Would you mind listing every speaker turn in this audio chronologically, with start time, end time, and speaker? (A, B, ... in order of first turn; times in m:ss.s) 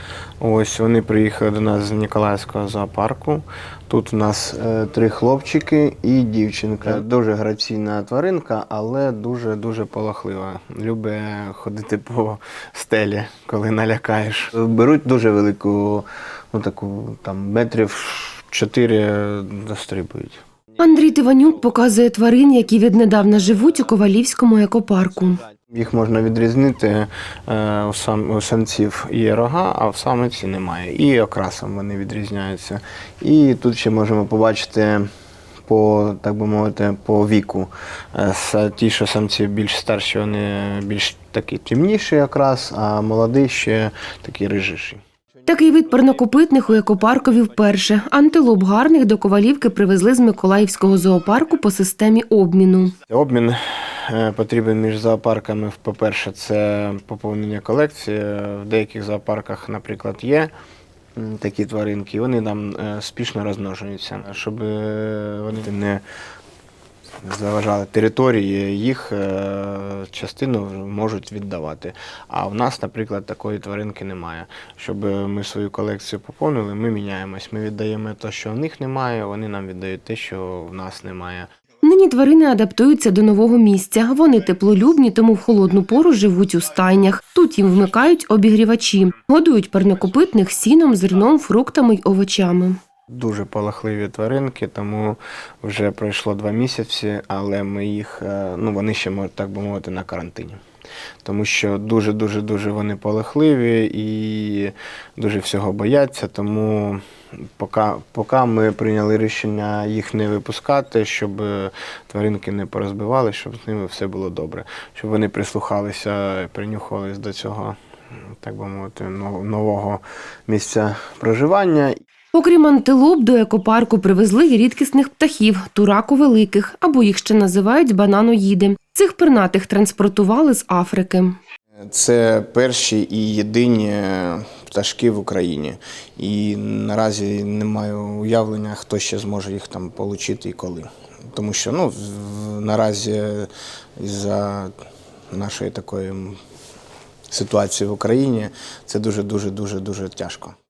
0:00.4-0:20.4 A
0:20.8-0:25.4 B
0:25.7-0:35.1 A
0:35.7-0:45.0 A
0:45.5-0:53.0 B
0:53.1-1:00.5 A
1:01.2-1:06.0 A
1:07.2-1:21.5 A
1:21.8-1:32.8 B
1:33.1-1:40.6 A
1:41.2-1:47.0 A
1:47.6-1:57.8 A
1:58.4-2:02.0 A
2:02.3-2:11.4 B
2:11.8-2:24.8 A
2:25.3-2:26.4 A
2:27.3-2:30.6 A